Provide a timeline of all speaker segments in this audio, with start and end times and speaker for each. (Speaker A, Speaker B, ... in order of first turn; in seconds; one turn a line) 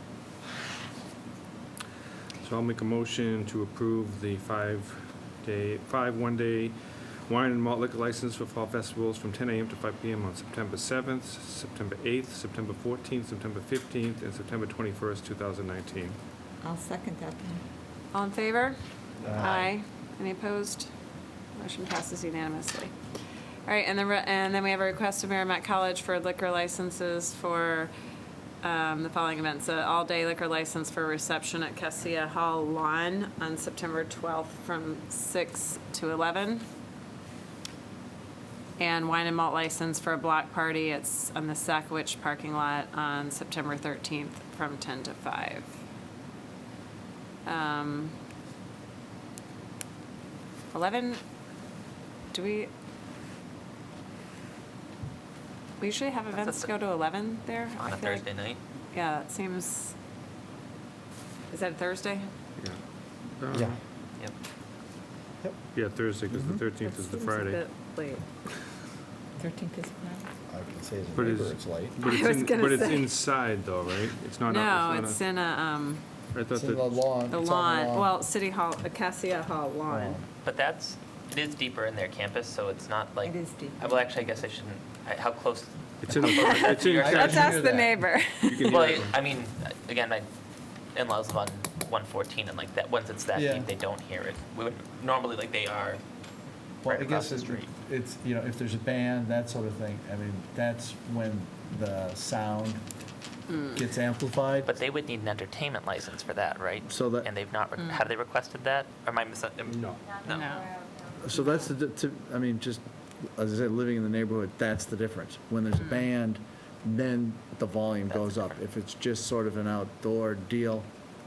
Speaker A: 2.4-16.2
Speaker B: 16.6-17.6
Speaker C: 18.1-18.8
Speaker D: 19.2-19.6
Speaker C: 19.4-20.9
Speaker E: 19.4-19.7
Speaker C: 21.6-22.9
Speaker C: 23.7-27.9
Speaker C: 28.6-36.6
Speaker C: 38.8-45.7
Speaker C: 47.5-48.1
Speaker C: 50.7-51.2
Speaker C: 52.3-52.7
Speaker C: 55.8-58.3
Speaker E: 56.3-56.7
Speaker E: 57.8-58.6
Speaker C: 58.9-60.0
Speaker C: 61.5-62.3
Speaker A: 62.6-62.8
Speaker A: 63.4-63.8
Speaker D: 63.5-63.8
Speaker A: 65.7-67.6
Speaker C: 66.8-68.2
Speaker B: 69.4-70.3
Speaker D: 70.5-72.0
Speaker A: 71.1-75.2
Speaker C: 72.0-73.1
Speaker C: 74.5-76.0
Speaker A: 76.3-77.0
Speaker D: 76.5-78.1
Speaker C: 77.3-80.2
Speaker D: 79.9-80.3
Speaker E: 80.4-87.4
Speaker B: 83.3-83.6
Speaker A: 86.0-87.7
Speaker C: 86.3-88.8
Speaker D: 86.9-88.0
Speaker A: 88.4-89.2
Speaker E: 88.7-90.3
Speaker E: 90.9-96.0
Speaker D: 93.3-93.7
Speaker D: 96.8-102.8
Speaker E: 96.8-97.7
Speaker C: 103.5-103.8
Speaker D: 103.7-104.7
Speaker E: 104.6-110.6
Speaker D: 106.9-107.3
Speaker C: 107.8-108.0
Speaker C: 110.3-110.6
Speaker D: 111.2-112.8
Speaker D: 113.3-120.9
Speaker E: 118.1-118.6